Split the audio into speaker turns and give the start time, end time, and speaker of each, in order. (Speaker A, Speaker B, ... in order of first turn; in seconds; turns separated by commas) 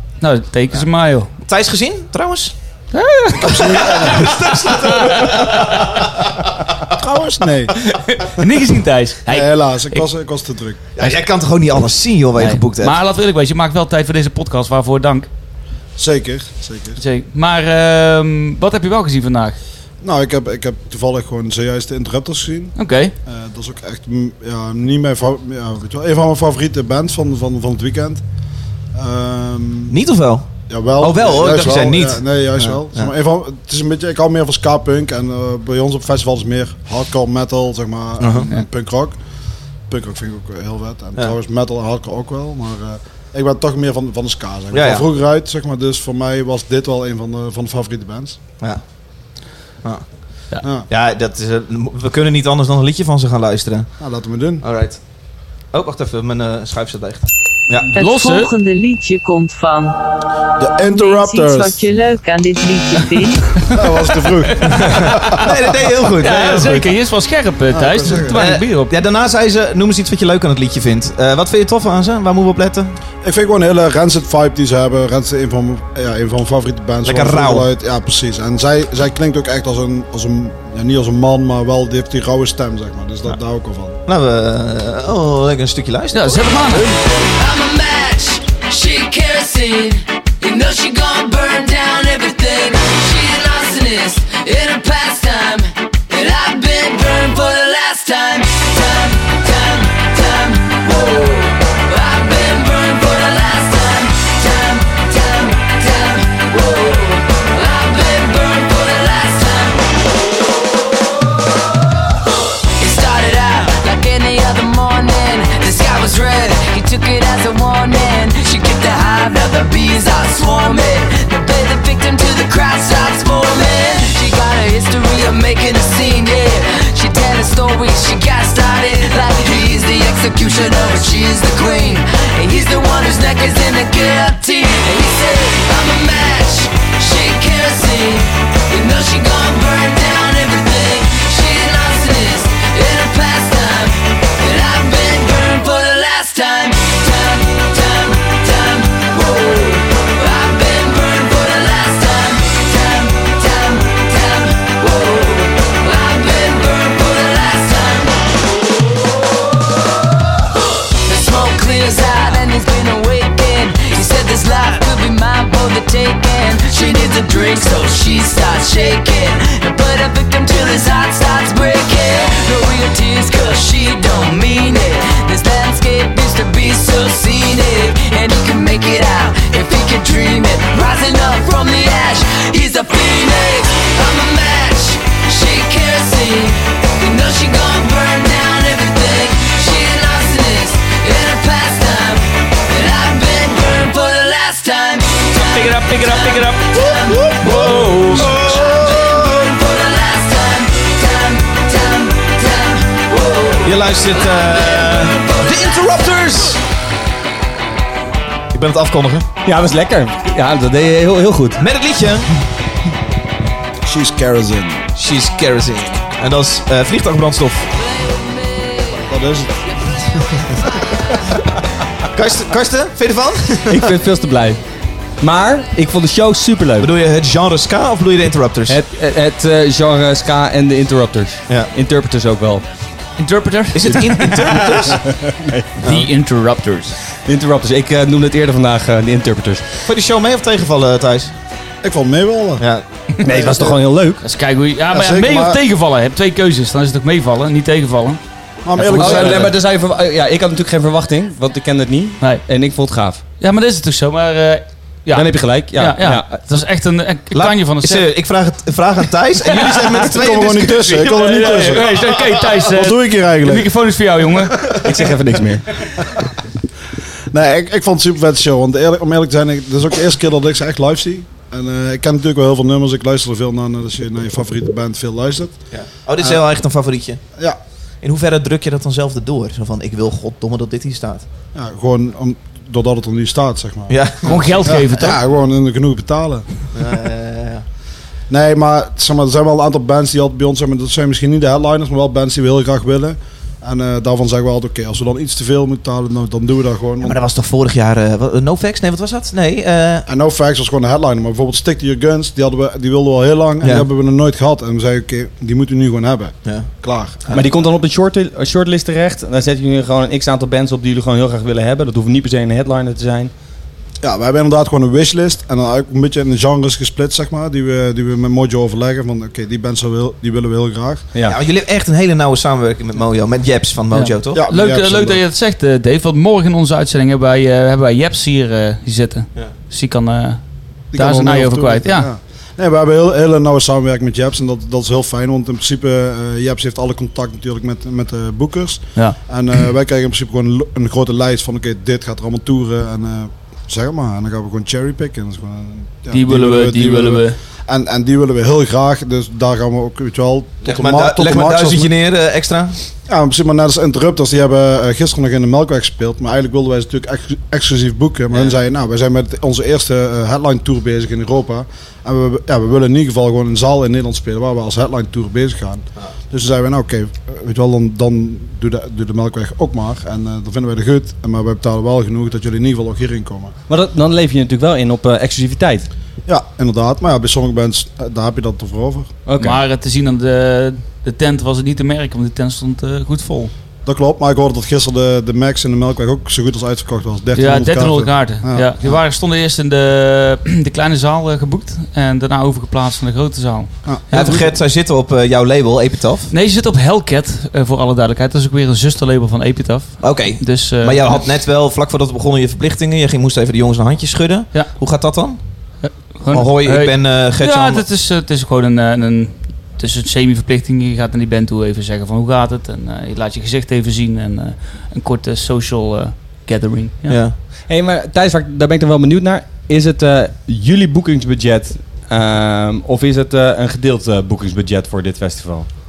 Speaker A: 0.2-1.3, Speaker B: 1.5-2.5, Speaker A: 2.9-4.2, Speaker C: 3.4-4.4, Speaker B: 3.4-6.3, Speaker A: 5.0-5.4, Speaker C: 6.9-7.8, Speaker A: 7.8-10.1, Speaker C: 9.3-11.1, Speaker B: 11.0-13.0, Speaker A: 12.4-15.3, Speaker C: 16.0-17.0, Speaker A: 17.0-19.6, Speaker C: 20.0-22.7, Speaker A: 22.8-23.1, Speaker C: 23.3-28.2, Speaker C: 28.9-29.9, Speaker B: 29.9-30.5, Speaker C: 30.7-39.2, Speaker B: 31.0-33.1, Speaker B: 38.2-38.5, Speaker C: 39.9-48.4, Speaker B: 44.7-45.1, Speaker B: 50.9-53.9, Speaker C: 54.0-54.6, Speaker B: 54.6-55.0, Speaker B: 55.7-57.9, Speaker D: 57.9-60.0, Speaker A: 58.0-58.5, Speaker C: 60.6-61.8, Speaker D: 60.8-63.6, Speaker C: 63.7-65.6, Speaker A: 64.7-64.9, Speaker B: 64.8-66.9, Speaker A: 66.2-68.9, Speaker C: 67.7-68.4, Speaker B: 68.3-72.9, Speaker C: 73.2-84.0, Speaker B: 77.0-77.7, Speaker B: 84.1-86.9, Speaker A: 86.1-86.9, Speaker E: 87.2-109.8, Speaker E: 112.8-158.2, Speaker E: 161.0-197.7, Speaker A: 195.3-198.4, Speaker B: 197.3-199.3, Speaker E: 198.3-205.6, Speaker B: 203.6-206.6, Speaker B: 208.5-209.3, Speaker F: 209.4-211.6, Speaker B: 211.6-212.3, Speaker C: 213.8-214.8, Speaker B: 214.9-217.7, Speaker C: 219.0-220.7, Speaker B: 222.1-223.8, Speaker F: 223.7-224.6, Speaker F: 225.2-226.9, Speaker B: 226.8-228.8, Speaker F: 228.7-232.7, Speaker A: 233.2-234.4, Speaker B: 233.7-235.0, Speaker F: 234.3-235.9, Speaker A: 235.8-237.0, Speaker F: 237.2-239.7, Speaker B: 239.9-241.3, Speaker C: 241.8-242.6, Speaker B: 242.6-242.8, Speaker F: 243.2-244.2, Speaker C: 243.3-243.7, Speaker A: 244.2-248.2, Speaker C: 244.9-245.6, Speaker C: 248.7-249.5, Speaker A: 248.8-249.5, Speaker F: 248.9-253.2, Speaker A: 253.4-258.1, Speaker F: 255.1-256.3, Speaker B: 257.3-261.8, Speaker A: 259.5-260.0, Speaker C: 260.0-261.9, Speaker A: 261.1-264.8, Speaker C: 262.7-263.7, Speaker F: 264.8-265.7, Speaker C: 267.3-275.6, Speaker B: 275.7-277.2, Speaker B: 278.0-281.2, Speaker C: 281.6-286.6, Speaker B: 283.9-284.6, Speaker A: 284.3-285.2, Speaker B: 286.8-287.6, Speaker C: 288.3-297.2, Speaker B: 297.0-300.1, Speaker C: 300.1-307.2, Speaker B: 306.4-306.7, Speaker F: 307.3-313.3, Speaker C: 314.0-321.1, Speaker B: 321.2-324.4, Speaker A: 323.9-330.4, Speaker C: 324.3-325.2, Speaker C: 330.9-351.9, Speaker A: 330.9-332.1, Speaker A: 346.1-347.4, Speaker B: 350.6-352.7, Speaker C: 353.1-373.6, Speaker F: 373.7-375.9, Speaker C: 376.3-379.1, Speaker F: 379.3-379.6, Speaker A: 379.4-383.5, Speaker C: 383.9-389.0, Speaker A: 387.4-394.5, Speaker B: 394.1-396.3, Speaker A: 396.3-401.2, Speaker B: 400.0-405.4, Speaker A: 405.8-417.2, Speaker B: 406.3-407.8, Speaker B: 417.1-417.4, Speaker F: 417.7-425.7